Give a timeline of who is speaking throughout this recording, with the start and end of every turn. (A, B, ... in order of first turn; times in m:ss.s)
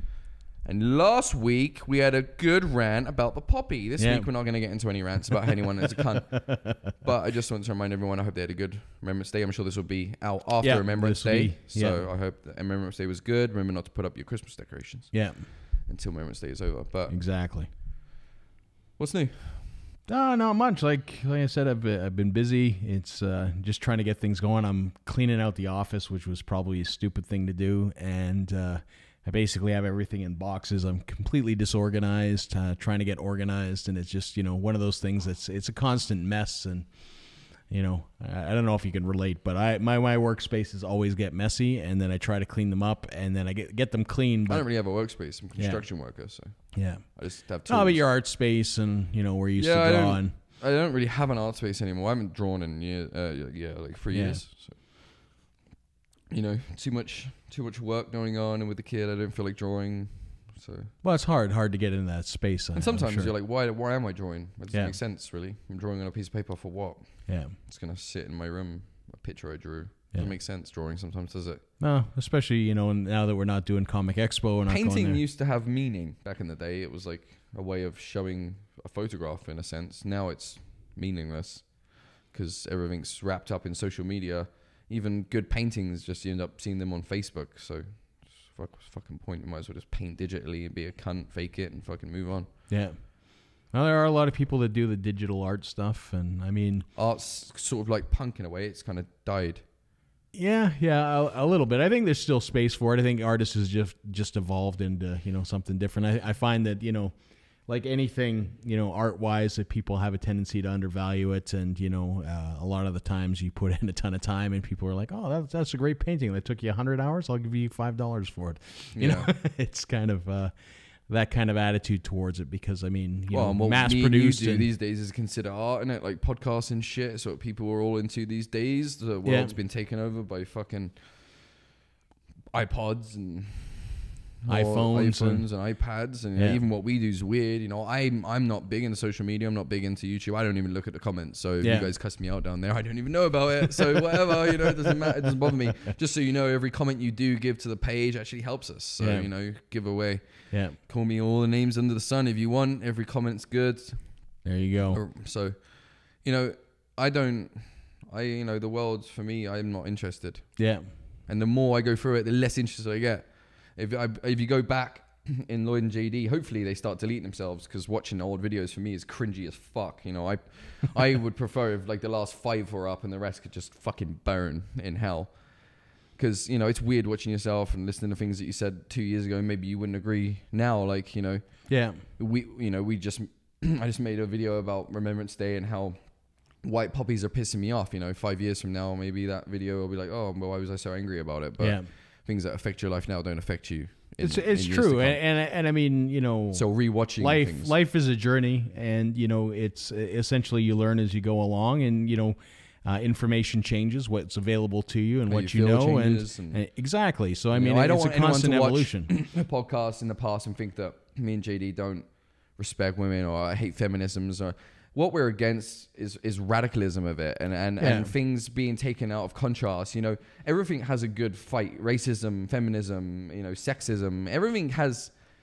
0:00.6-0:17.2 A
0:04.0-0:04.3 B
0:06.4-0:06.9 B
0:10.6-0:12.0 B
0:15.1-0:15.5 B
0:17.1-0:17.7 B
0:19.0-0:19.7 A
0:20.1-0:45.9 B
0:44.5-0:48.0 A
0:46.7-0:50.4 B
0:49.6-0:55.0 A
0:54.1-0:54.4 B
0:56.3-1:00.9 A
1:01.0-1:03.3 B
1:02.8-1:11.6 A
1:04.7-1:05.0 B
1:07.3-1:07.5 B
1:11.8-1:15.2 B
1:14.7-1:32.5 A
1:32.7-1:36.9 B
1:37.0-1:39.6 A
1:40.3-2:00.5 B
1:59.0-1:59.3 A
2:01.1-2:04.7 B
2:03.3-2:11.5 A
2:09.2-2:09.5 B
2:12.5-2:40.6 A
2:14.5-2:15.6 B
2:16.4-2:16.6 B
2:21.6-2:21.9 B
2:24.6-2:25.0 B
2:29.0-2:29.3 B
2:30.5-2:30.8 B
2:34.4-2:35.0 B
2:40.6-2:40.9 B
2:41.3-3:15.2 A
3:01.7-3:02.0 B
3:11.6-3:11.9 B
3:14.2-3:29.1 B
3:16.5-3:17.7 A
3:25.3-3:26.6 A
3:27.5-3:45.2 A
3:37.8-3:38.1 B